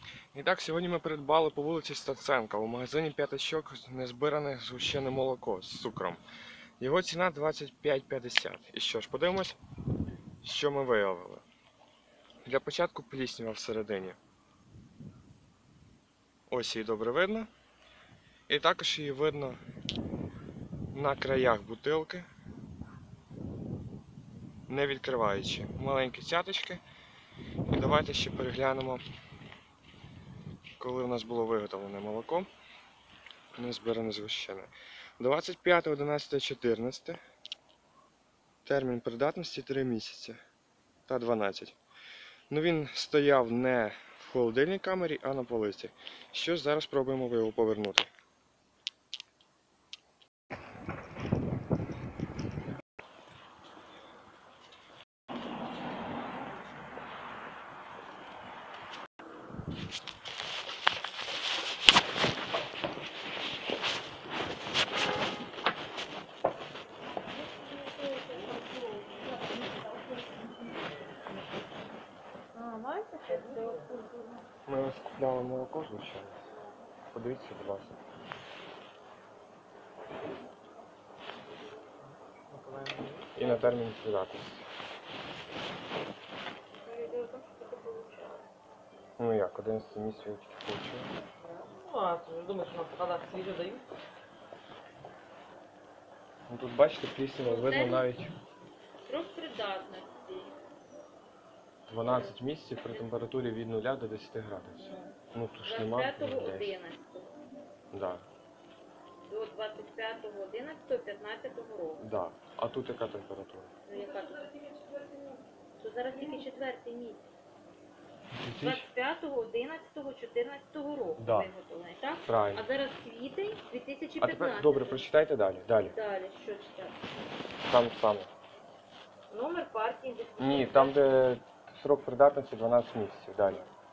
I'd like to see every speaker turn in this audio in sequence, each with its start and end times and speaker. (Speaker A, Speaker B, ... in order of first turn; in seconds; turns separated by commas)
Speaker A: 0.3-6.2, Speaker A: 6.8-9.6, Speaker A: 10.4-11.4, Speaker A: 12.4-14.2, Speaker A: 16.5-17.5, Speaker A: 18.5-19.6, Speaker A: 20.9-22.3, Speaker A: 24.7-26.8, Speaker A: 27.7-29.0, Speaker A: 30.8-32.5, Speaker A: 33.6-37.2, Speaker A: 38.6-40.4, Speaker A: 41.1-41.8, Speaker A: 42.5-48.1, Speaker B: 67.3-70.7, Speaker B: 72.5-74.5, Speaker C: 73.3-74.0, Speaker A: 74.7-76.4, Speaker A: 77.1-78.0, Speaker C: 82.0-83.4, Speaker A: 83.4-84.7, Speaker B: 83.4-83.7, Speaker B: 86.8-88.5, Speaker A: 89.2-91.1, Speaker C: 91.4-93.9, Speaker A: 96.5-98.3, Speaker B: 97.4-98.1, Speaker B: 99.0-100.6, Speaker A: 101.9-106.8, Speaker B: 102.1-102.3, Speaker B: 104.8-107.3, Speaker A: 107.9-108.2, Speaker B: 109.3-112.0, Speaker A: 112.0-113.7, Speaker B: 113.9-114.6, Speaker B: 115.8-117.3, Speaker A: 118.3-118.8, Speaker B: 118.6-125.0, Speaker A: 121.2-121.5, Speaker A: 122.3-122.7, Speaker A: 124.2-126.0, Speaker B: 125.9-127.0, Speaker A: 127.7-128.3, Speaker B: 129.3-131.0, Speaker A: 130.4-133.7